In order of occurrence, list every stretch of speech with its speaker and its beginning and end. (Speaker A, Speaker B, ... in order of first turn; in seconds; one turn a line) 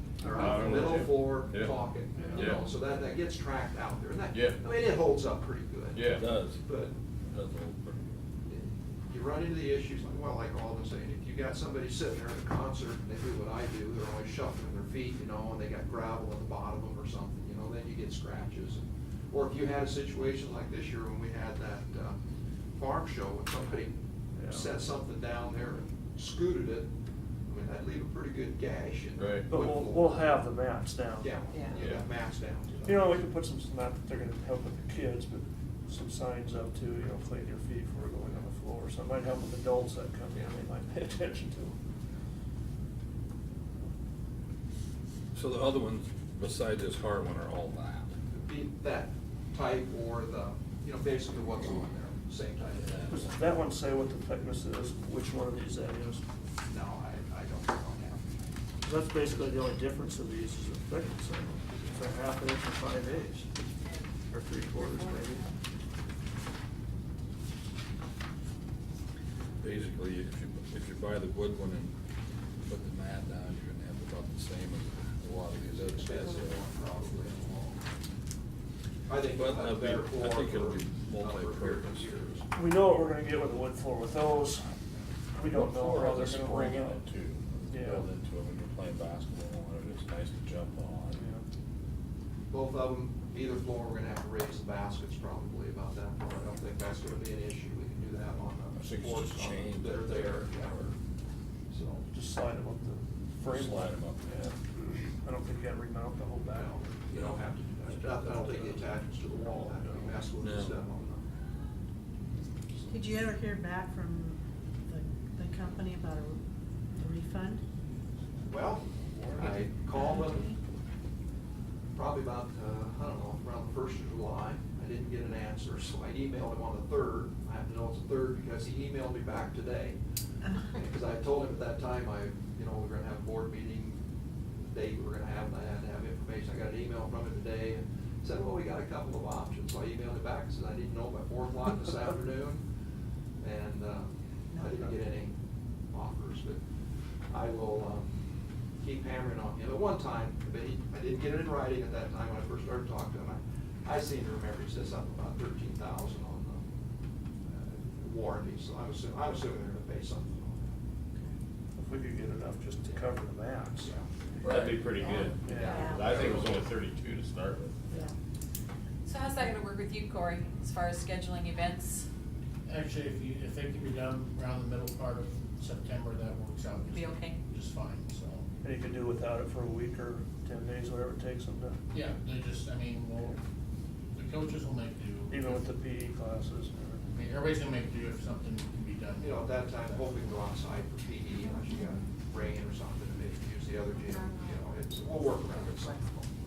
Speaker A: 0.2-6.9
Speaker B: 0.2-1.1
Speaker C: 0.3-1.8
Speaker B: 2.2-2.6
Speaker C: 2.4-2.8
Speaker C: 4.3-4.6
Speaker C: 5.9-6.2
Speaker D: 6.2-6.6
Speaker D: 7.3-8.1
Speaker A: 8.5-22.2
Speaker A: 22.8-23.9
Speaker B: 24.4-24.7
Speaker A: 24.5-26.9
Speaker A: 27.5-30.2
Speaker C: 29.2-29.5
Speaker B: 29.5-31.3
Speaker A: 31.2-33.2
Speaker C: 31.7-32.0
Speaker B: 32.9-41.8
Speaker D: 45.3-48.1
Speaker A: 48.3-53.2
Speaker D: 52.8-53.4
Speaker B: 53.1-56.2
Speaker A: 56.7-58.2
Speaker B: 58.8-63.5
Speaker B: 64.3-65.5
Speaker E: 64.8-65.4
Speaker D: 69.6-72.0
Speaker D: 72.7-76.7
Speaker A: 75.7-77.9
Speaker A: 79.1-82.5
Speaker D: 79.3-82.4
Speaker B: 82.5-84.7
Speaker B: 85.3-87.0
Speaker D: 85.4-91.2
Speaker B: 87.7-88.1
Speaker B: 91.1-91.5
Speaker A: 92.5-101.0
Speaker D: 98.8-100.9
Speaker A: 101.7-102.0
Speaker B: 102.1-107.3
Speaker D: 103.5-104.5
Speaker A: 106.5-111.2
Speaker B: 107.8-108.9
Speaker B: 109.7-110.2
Speaker D: 110.4-110.8
Speaker A: 112.7-113.2
Speaker F: 112.9-116.4
Speaker F: 117.0-117.6
Speaker A: 118.5-120.5
Speaker F: 119.9-120.6
Speaker A: 122.0-130.0
Speaker A: 130.6-134.0
Speaker A: 134.7-142.6
Speaker A: 143.4-145.3
Speaker F: 144.5-144.9
Speaker A: 145.9-146.6
Speaker A: 147.3-148.1
Speaker A: 148.8-156.7
Speaker A: 157.5-160.7
Speaker B: 161.8-163.9
Speaker A: 163.8-164.1
Speaker C: 164.4-167.9
Speaker D: 164.4-164.9
Speaker F: 165.1-166.1
Speaker B: 165.4-166.0
Speaker A: 165.4-166.6
Speaker F: 167.9-168.2
Speaker E: 169.1-172.1
Speaker G: 172.7-178.4
Speaker E: 176.9-177.4
Speaker B: 178.6-181.8
Speaker G: 181.9-183.4
Speaker G: 184.2-185.7
Speaker B: 185.3-187.0
Speaker G: 187.1-190.2
Speaker A: 189.2-196.3